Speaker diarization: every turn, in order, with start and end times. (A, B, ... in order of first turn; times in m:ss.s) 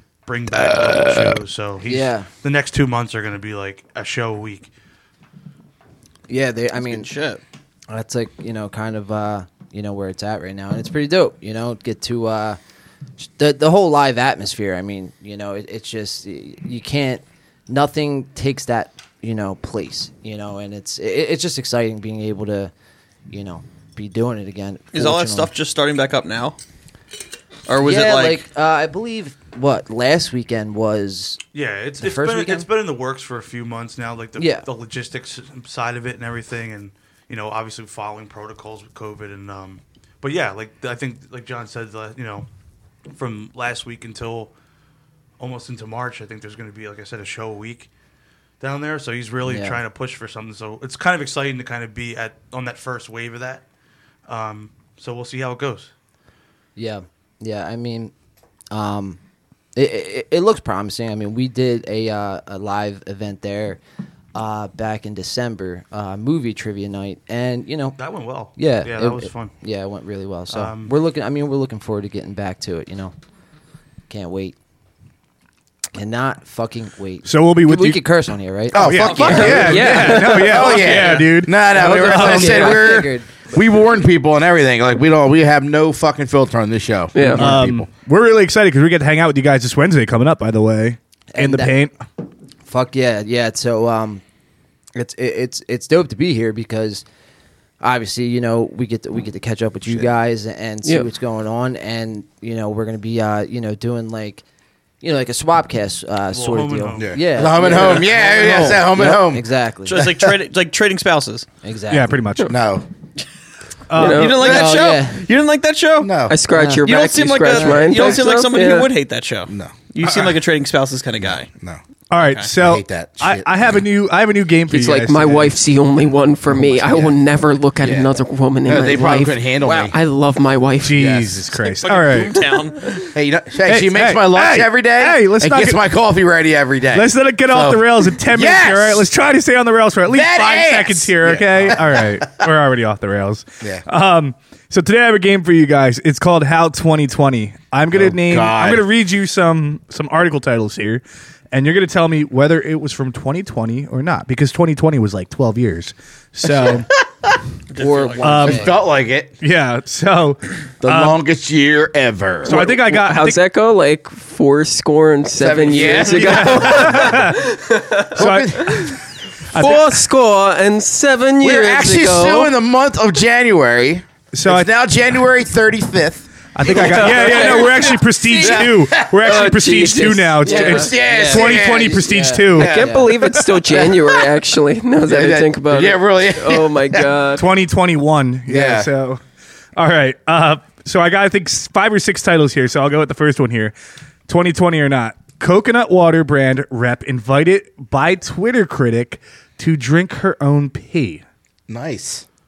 0:00.3-0:04.7 A
0:00.5-0:01.4 B
0:01.8-0:02.3 C
0:06.3-0:07.1 C
0:06.8-0:07.4 D
0:07.9-0:12.6 C
0:13.2-0:22.7 C
0:23.3-0:25.5 C
0:24.9-0:26.6 D
0:27.7-0:28.4 D
0:27.8-0:31.4 C
0:31.5-0:42.5 A
0:32.0-0:32.7 C
0:34.4-0:34.7 C
0:43.1-0:44.5 A
0:45.4-0:47.9 A
0:48.6-0:53.6 A
0:49.4-0:49.8 C
0:54.3-0:55.9 A
0:56.8-0:58.1 C
0:58.7-0:59.2 C
0:59.8-1:03.8 C
1:04.4-1:08.0 C
1:08.0-1:09.5 A
1:08.6-1:13.1 C
1:10.5-1:11.0 A
1:14.1-1:14.6 C
1:15.9-1:19.3 C
1:17.2-1:18.0 E
1:18.7-1:22.8 E
1:18.7-1:27.9 B
1:18.8-1:20.1 D
1:19.2-1:20.9 F
1:20.7-1:23.6 C
1:27.1-1:27.5 F
1:27.4-1:31.9 E
1:31.3-1:31.8 C
1:32.7-1:34.2 C
1:35.0-1:37.0 C
1:37.8-1:44.4 C
1:45.0-1:50.0 C
1:46.3-1:47.9 A
1:47.0-1:50.3 B
1:49.8-1:51.5 D
1:51.6-1:52.2 C
1:51.9-1:52.6 E
1:52.5-1:52.8 B
1:53.9-1:54.4 E
1:54.0-1:54.6 F
1:54.0-1:56.2 D
1:54.3-1:55.2 C
1:54.4-1:54.8 B
1:56.0-1:56.4 B
1:56.3-1:58.9 F
1:56.5-1:56.9 C
1:56.8-2:01.5 D
1:57.5-1:58.2 C
1:59.5-1:59.7 B
2:00.0-2:00.4 E
2:02.1-2:05.6 E
2:02.2-2:02.5 D
2:02.6-2:03.8 B
2:04.7-2:11.0 F
2:06.5-2:07.2 B
2:07.8-2:08.1 B
2:08.6-2:10.0 B
2:09.6-2:09.9 C
2:10.8-2:12.3 E
2:11.0-2:11.3 B
2:11.6-2:13.0 D
2:13.1-2:19.0 B
2:13.7-2:15.9 E
2:16.9-2:36.9 E
2:20.1-2:22.4 B
2:27.9-2:28.9 B
2:36.5-2:36.8 B
2:37.7-2:38.6 D
2:37.8-2:38.8 C
2:38.2-2:38.7 E
2:38.4-2:39.3 B
2:39.4-2:41.2 E
2:40.8-2:42.6 B
2:42.4-2:43.4 E
2:42.5-2:48.9 F
2:45.4-2:47.4 B
2:46.1-2:47.4 E
2:48.1-2:49.0 B
2:48.2-2:49.0 E
2:49.5-2:52.5 F
2:49.5-2:50.0 E
2:51.4-2:59.2 B
2:54.3-2:54.7 E
2:56.6-3:02.8 E
2:56.7-2:58.7 F
2:56.7-2:57.6 C
2:59.2-3:00.9 F
3:00.4-3:04.3 B
3:00.5-3:03.1 C
3:02.6-3:07.4 F
3:05.0-3:07.1 B
3:07.4-3:09.2 E
3:08.5-3:08.9 B
3:09.8-3:13.7 E
3:14.3-3:21.2 E
3:21.7-3:22.2 B